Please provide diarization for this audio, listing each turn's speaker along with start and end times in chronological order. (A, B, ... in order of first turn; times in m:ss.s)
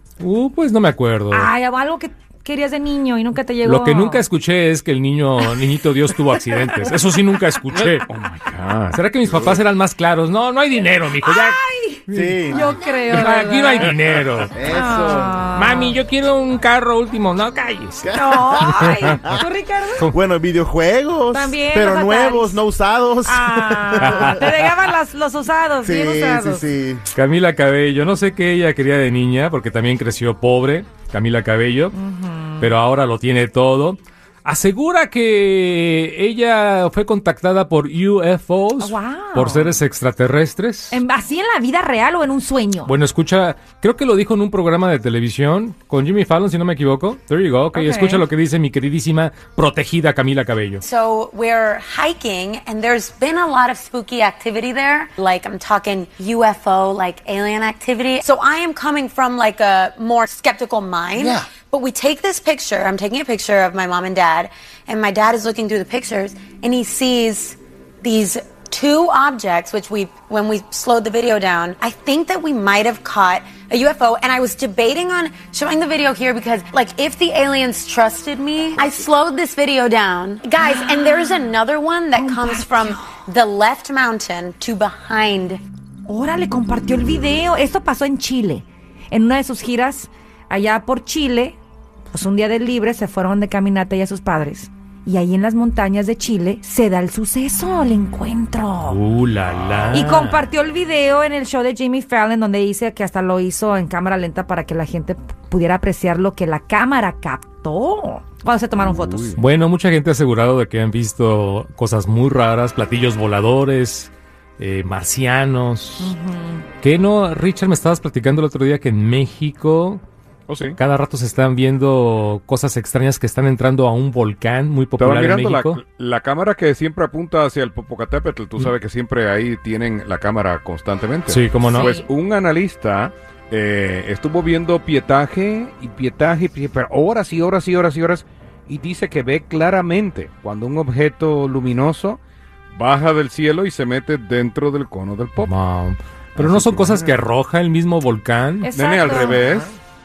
0:00.2-0:01.5 A
0:01.3-0:04.2 B
0:03.6-0:08.0 A
0:07.7-0:09.6 C
0:08.9-0:14.6 A
0:11.2-0:13.9 B
0:12.1-0:12.8 D
0:14.5-0:15.4 D
0:14.6-0:15.9 B
0:15.5-0:18.1 A
0:18.0-0:19.4 D
0:18.1-0:20.0 B
0:18.6-0:19.0 A
0:20.1-0:24.4 D
0:21.3-0:22.6 B
0:23.2-0:26.6 B
0:24.0-0:24.5 A
0:25.8-0:27.0 D
0:27.1-0:32.0 A
0:31.9-0:32.7 B
0:32.6-0:41.0 A
0:38.8-0:39.7 B
0:40.9-0:42.9 B
0:42.8-0:50.8 A
0:47.7-0:48.2 B
0:50.8-1:25.6 E
1:20.6-1:21.4 B
1:22.1-1:23.1 B
1:26.1-1:31.6 B
1:32.1-1:39.0 B
1:38.9-1:40.5 A
1:39.9-1:49.4 B
1:49.3-1:56.1 A
1:56.0-1:56.6 B
1:56.8-2:00.0 A
2:00.5-2:00.8 C
2:00.7-2:05.8 A
2:05.0-2:22.2 C
2:11.3-2:12.0 A
2:11.7-2:12.0 B
2:22.7-2:25.5 C
2:25.4-2:28.7 A
2:26.4-2:27.2 C
2:28.6-2:29.4 B
2:28.7-2:29.7 C